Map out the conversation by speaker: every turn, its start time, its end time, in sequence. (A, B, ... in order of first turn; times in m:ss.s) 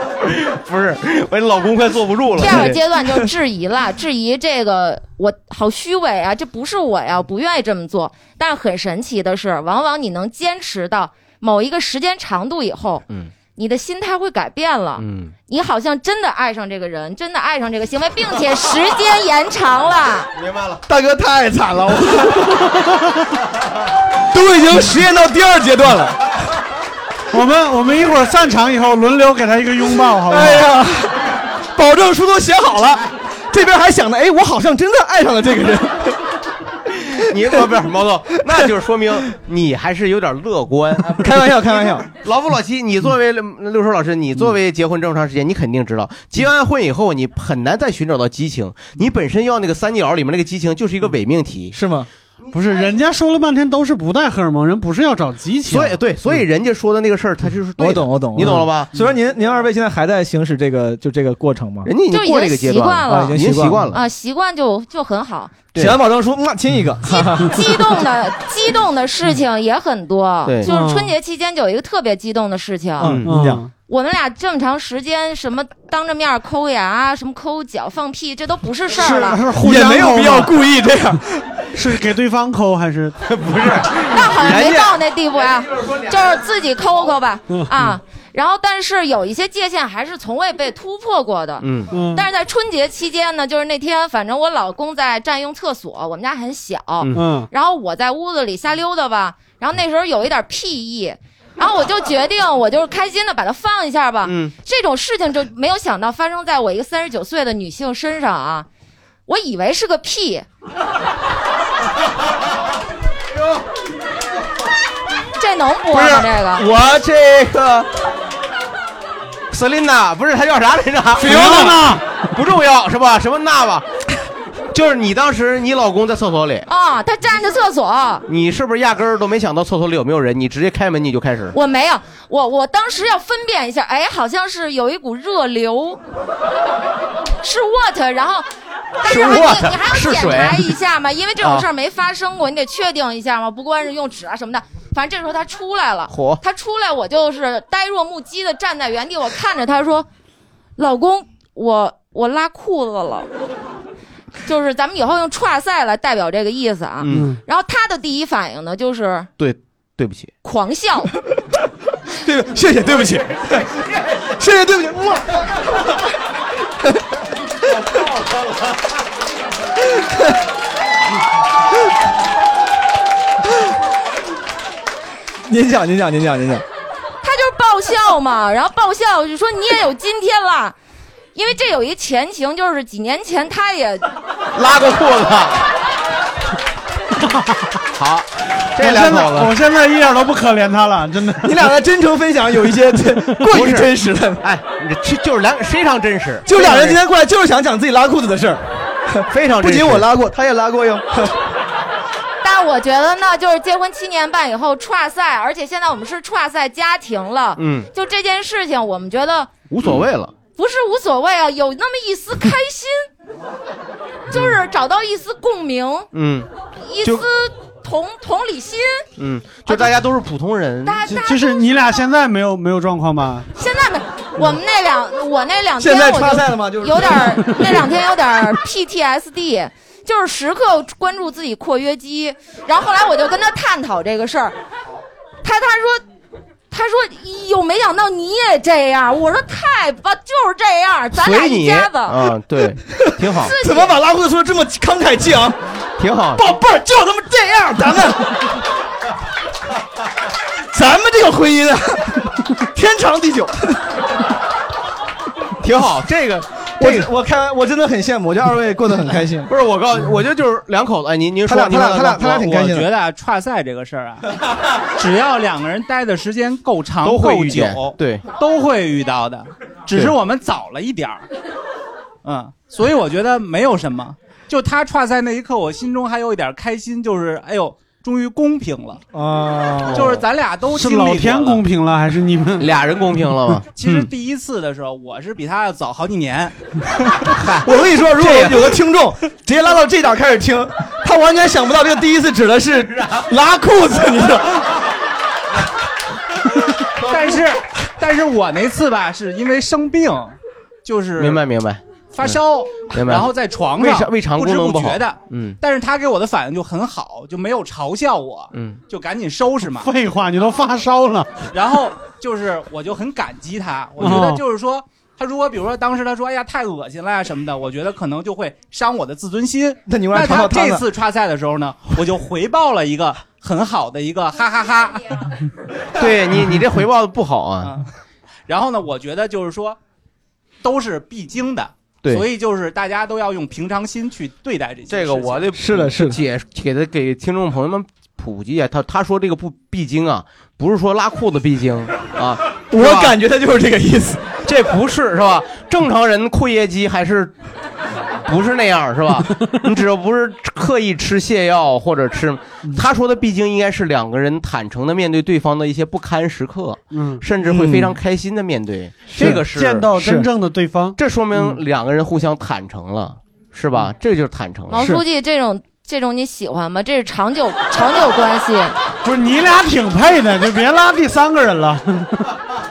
0:00.4-0:02.8 A
0:02.4-0:20.3 B
0:02.4-0:03.3 C
0:13.1-0:13.4 A
0:15.0-0:15.4 A
0:20.4-0:20.8 A
0:20.9-0:22.7 C
0:24.3-0:26.2 C
0:27.3-0:30.7 D
0:30.3-0:36.2 C
0:37.2-0:51.8 A
0:41.1-0:42.1 C
0:51.7-0:52.1 C
0:52.5-0:56.0 D
0:55.6-0:58.9 A
0:57.8-1:01.9 C
0:58.4-0:59.1 D
1:01.8-1:04.0 A
1:02.1-1:03.4 B
1:03.0-1:04.0 C
1:03.9-1:05.6 B
1:05.7-1:06.0 A
1:05.8-1:07.6 C
1:07.0-1:13.2 B
1:10.6-1:11.1 D
1:13.0-1:13.6 C
1:13.0-1:13.3 A
1:13.2-1:13.7 D
1:13.9-1:19.4 B
1:19.0-1:20.5 D
1:19.5-1:21.6 C
1:21.7-1:23.2 D
1:23.3-1:24.0 A
1:24.1-1:48.6 B
1:24.2-1:25.0 C
1:27.5-1:27.9 D
1:31.6-1:31.9 A
1:31.9-1:32.3 D
1:37.1-1:37.5 D
1:44.2-1:44.6 A
1:49.3-1:50.4 B
1:55.4-1:56.6 B
1:55.9-1:57.9 A
1:59.5-2:01.6 A
2:01.2-2:01.8 C
2:01.2-2:02.0 D
2:02.3-2:03.9 A
2:04.7-2:06.7 A
2:06.7-2:08.2 B
2:08.3-2:11.6 A
2:11.5-2:16.0 B
2:17.4-2:18.4 B
2:19.0-2:30.1 B
2:19.0-2:20.7 A
2:21.4-2:21.7 A
2:26.1-2:26.4 A
2:30.8-2:33.3 B
2:34.4-2:39.3 B
2:37.0-2:37.3 A
2:37.1-2:37.4 D
2:39.4-2:40.3 A
2:40.4-2:41.1 B
2:42.2-2:43.7 C
2:44.3-2:45.4 C
2:49.9-2:50.3 C
2:55.5-2:56.6 C
2:57.2-3:00.8 B
3:01.3-3:04.1 B
3:04.5-3:05.6 A
3:07.9-3:09.5 A
3:08.8-3:11.5 D
3:11.4-3:14.4 C
3:13.5-3:17.0 A
3:16.4-3:21.3 C
3:19.3-3:20.1 A
3:22.4-3:29.5 B
3:27.6-3:27.9 A
3:29.7-3:30.4 A
3:30.5-3:33.1 B
3:34.3-3:36.1 B
3:36.1-3:36.5 A
3:36.8-3:39.1 B
3:39.2-3:41.0 A
3:39.6-3:39.9 B
3:40.8-3:41.6 B
3:41.1-3:43.5 D
3:43.5-3:54.6 B
3:45.8-3:47.4 C
3:55.4-3:56.0 B
3:56.7-4:02.3 B
4:01.1-4:03.5 A
4:03.4-4:04.0 B
4:03.4-4:05.6 C
4:06.0-4:06.4 A
4:06.4-4:08.3 C
4:10.7-4:13.8 C
4:15.6-4:17.1 A
4:16.8-4:19.5 C
4:19.5-4:22.5 A
4:21.5-4:22.9 C
4:22.4-4:24.2 E
4:24.9-4:31.2 E
4:27.0-4:28.2 A
4:32.2-4:39.0 E
4:39.1-4:40.1 C
4:39.9-4:41.6 E
4:39.9-4:40.2 A
4:40.7-4:42.7 D
4:42.6-4:44.1 A
4:43.7-4:46.5 E
4:47.4-4:47.6 A
4:47.6-4:54.7 C
4:48.2-4:48.6 A
4:57.0-5:01.4 E
5:01.1-5:05.6 A
5:02.1-5:09.9 E
5:08.5-5:08.8 A
5:09.8-5:11.4 D
5:11.5-5:25.1 E
5:14.0-5:14.4 D
5:19.9-5:20.8 C
5:26.0-5:27.8 A
5:28.5-5:29.8 E
5:30.6-5:35.5 E
5:34.9-5:43.2 A
5:35.5-5:36.2 C
5:42.7-5:44.3 C
5:44.4-5:47.3 A
5:48.2-5:59.9 A
5:56.9-5:57.2 D
5:57.4-5:58.0 C
5:59.1-5:59.4 C
5:59.2-6:01.6 D
5:59.9-6:00.3 C
6:01.0-6:04.9 A
6:04.7-6:08.8 B
6:04.8-6:05.0 C
6:09.0-6:12.2 D